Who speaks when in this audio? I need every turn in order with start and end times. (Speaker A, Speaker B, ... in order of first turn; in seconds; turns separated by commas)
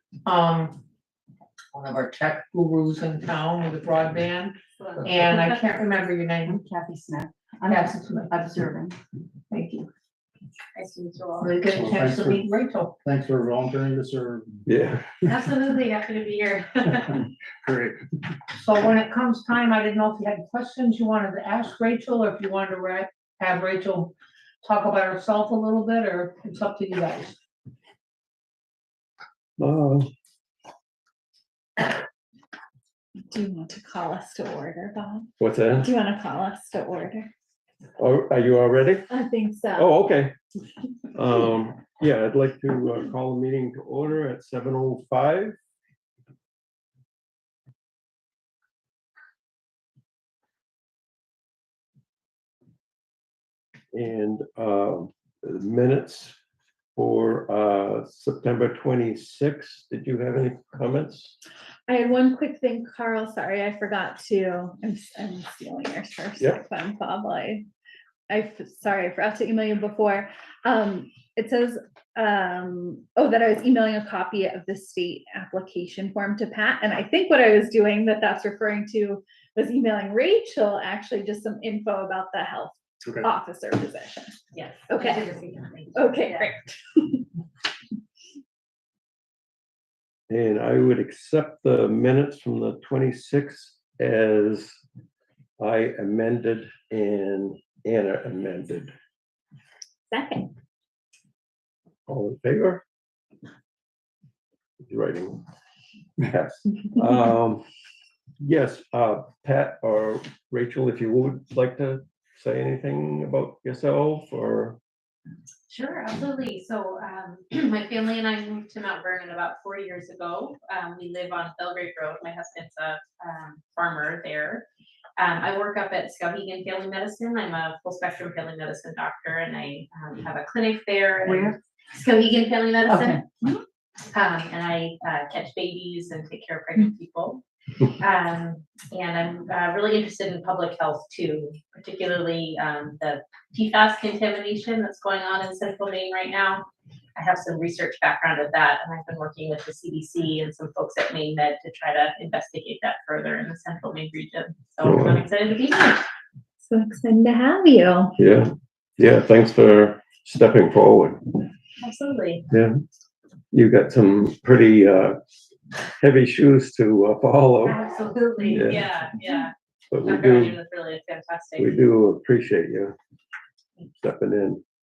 Speaker A: 0.2-0.8, Speaker A: 1.9-6.6, Speaker B: 4.9-5.4, Speaker B: 6.4-9.0, Speaker A: 7.7-8.3, Speaker A: 9.5-9.9, Speaker C: 10.7-11.6, Speaker A: 11.4-12.9, Speaker D: 11.7-12.4, Speaker D: 13.0-14.6, Speaker E: 14.7-15.1, Speaker C: 15.2-17.1, Speaker D: 17.6-18.0, Speaker A: 18.5-27.3, Speaker E: 29.6-30.1, Speaker F: 33.3-37.3, Speaker E: 35.4-35.9, Speaker E: 38.0-39.1, Speaker F: 39.1-39.9, Speaker E: 39.8-40.3, Speaker E: 41.1-45.6, Speaker E: 53.9-56.4, Speaker E: 57.0-61.4, Speaker F: 61.9-67.7, Speaker F: 68.3-84.4, Speaker C: 84.5-86.5, Speaker F: 84.9-85.2, Speaker F: 85.9-87.2, Speaker E: 90.3-94.8, Speaker E: 95.6-98.9, Speaker F: 100.1-100.5, Speaker E: 102.1-102.8, Speaker E: 104.8-105.4, Speaker E: 106.2-107.7, Speaker E: 108.4-114.8, Speaker C: 115.7-124.6, Speaker C: 125.2-133.2, Speaker B: 131.2-131.5, Speaker B: 132.9-133.6, Speaker C: 134.1-137.4, Speaker C: 138.0-156.0, Speaker E: 154.8-155.2, Speaker F: 156.6-158.2, Speaker E: 158.2-161.2, Speaker C: 161.8-162.4, Speaker E: 162.5-162.7, Speaker E: 163.5-165.2, Speaker E: 166.0-167.8, Speaker C: 167.6-169.5, Speaker E: 168.4-168.9, Speaker E: 169.9-170.6, Speaker C: 170.0-171.8, Speaker E: 171.6-172.9, Speaker E: 174.0-174.6